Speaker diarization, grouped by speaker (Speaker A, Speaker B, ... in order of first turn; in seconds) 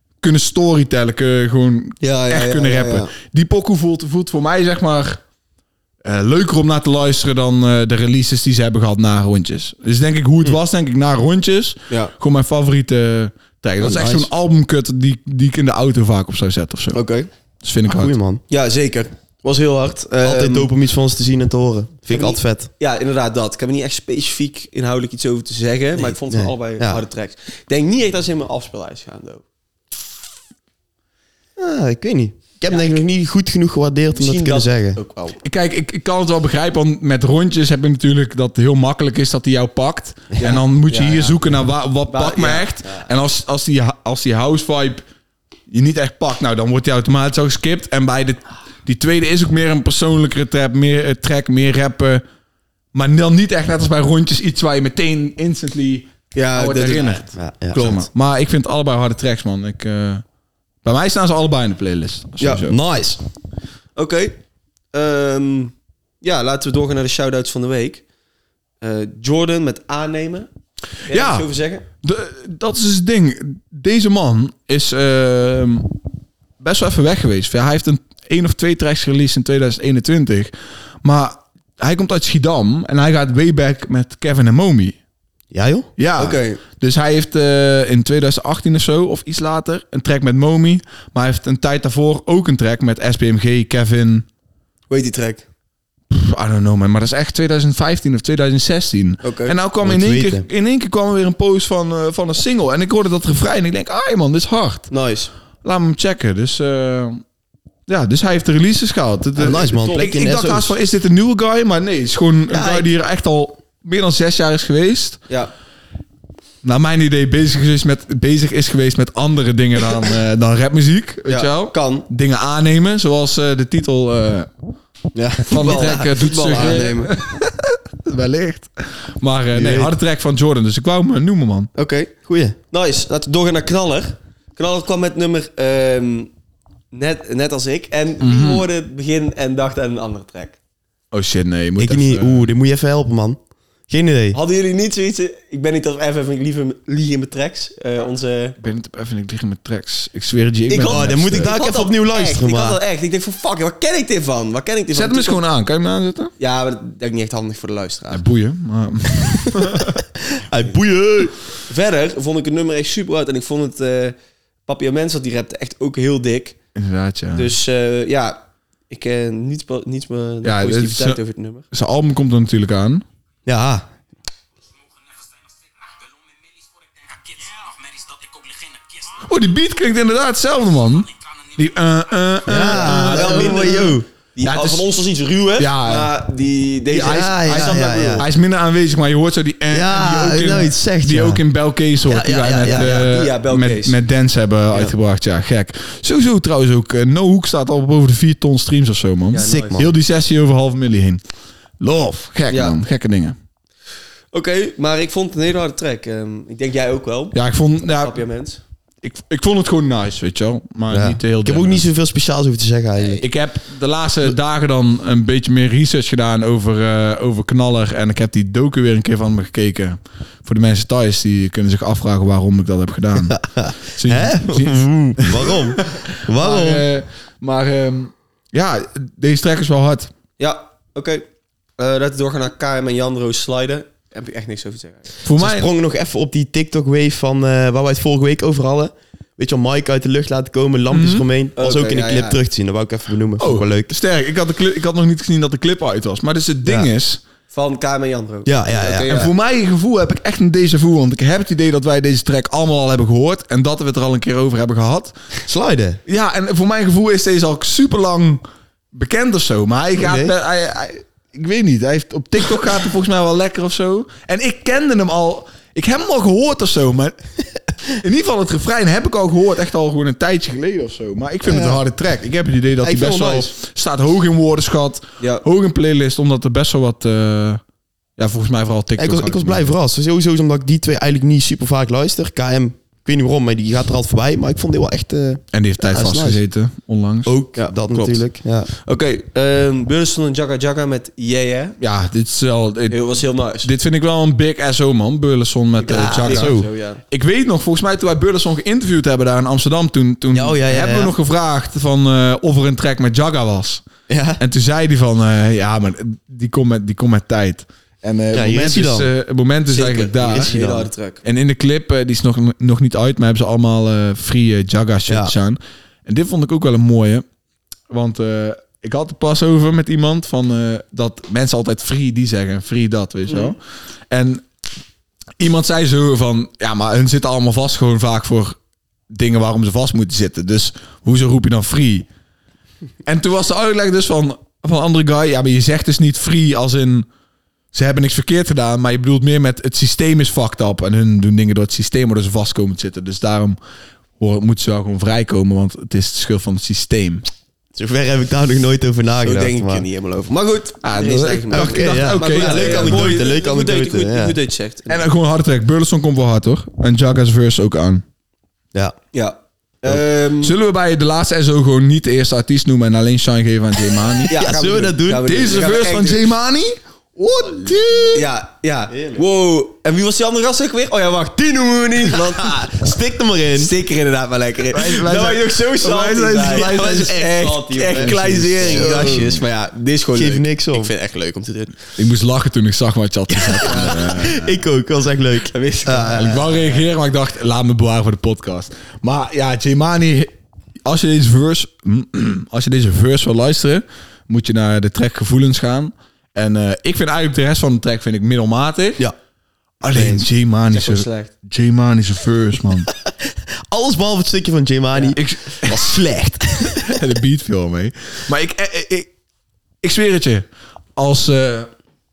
Speaker A: 0.2-5.2, 6.0-17.0, 17.6-18.1, 35.4-45.0, 45.7-52.2, 52.9-60.2, 60.8-62.8, 71.1-71.5, 72.0-75.9, 76.6-80.5, 81.0-85.0, 86.0-94.2, 96.1-104.9, 105.6-107.2, 107.9-115.2, 116.6-124.5, 125.5-131.7, 138.2-138.7, 141.1-142.5, 148.6-151.5, 154.9-156.3, 158.1-160.0, 166.8-167.5, 170.4-171.2, 171.7-173.0, 179.1-183.7, 184.4-184.8, 185.6-186.1, 186.9-201.2, 201.8-203.3, 207.3-208.2, 209.0-211.8, 213.2-230.1, 235.2-235.7, 240.9-241.3, 243.4-247.2, 249.1-255.2, 256.1-267.2, 267.9-277.6, 278.2-279.7, 285.5-287.3, 291.8-303.8, 304.4-310.6, 311.2-317.2, 317.9-323.6, 324.1-324.4, 325.4-328.6, 329.1-332.1, 333.0-337.1, 337.7-343.6, 344.2-347.2, 350.8-353.2, 354.9-358.0, 359.9-364.3, 365.2-368.1, 374.7-377.2, 377.9-379.4, 382.0-384.6, 386.1-390.3, 390.8-399.0, 399.8-402.9, 405.1-406.1, 406.8-409.1, 409.8-411.7
Speaker B: 2.0-3.1, 16.9-17.3, 18.5-20.7, 22.1-29.4, 32.7-33.0, 34.1-35.4, 40.4-41.4, 42.1-42.7, 56.3-58.0, 64.0-64.3, 64.9-68.0, 68.8-70.5, 71.0-71.8, 86.2-86.6, 94.9-95.4, 99.2-99.5, 104.9-105.3, 109.8-110.1, 121.3-122.0, 125.1-127.1, 131.7-132.1, 132.7-136.3, 136.9-140.6, 144.3-148.6, 150.7-155.4, 156.4-158.2, 161.7-166.6, 167.3-171.7, 182.7-188.2, 192.7-194.0, 199.3-199.8, 202.5-202.8, 204.3-208.6, 230.4-231.2, 231.8-235.1, 241.6-242.4, 247.5-249.3, 287.5-288.2, 288.8-291.8, 292.9-293.7, 295.8-297.0, 309.7-311.2, 349.2-355.1, 359.1-360.5, 364.3-366.2, 368.1-372.8, 373.5-381.8, 383.6-384.1, 385.5-386.8, 400.7-401.3
Speaker C: 13.8-14.3, 17.9-18.4, 20.2-22.7, 26.0-27.0, 31.6-35.0, 57.3-58.0, 62.4-63.2, 85.5-85.9, 99.8-100.5, 109.3-110.7, 112.5-112.8, 129.5-129.9, 132.2-132.6, 141.8-144.4, 150.8-152.8, 160.3-161.3, 173.4-173.9, 182.4-184.1, 187.0-188.2, 189.7-191.4, 192.1-193.1, 199.4-199.9, 210.9-213.2, 223.3-226.8, 235.4-243.9, 248.4-249.3, 255.4-256.0, 260.0-260.3, 271.4-271.8, 272.8-273.5, 279.0-286.4, 287.2-288.7, 295.9-296.7, 300.3-301.1, 304.1-304.4, 308.3-309.1, 310.2-310.9, 315.1-315.3, 347.7-349.9, 351.5-354.4, 364.3-365.7, 367.4-368.2, 368.9-369.2, 372.1-373.7, 376.4-379.3, 380.1-380.9, 383.3-386.4, 399.9-400.2, 403.2-407.0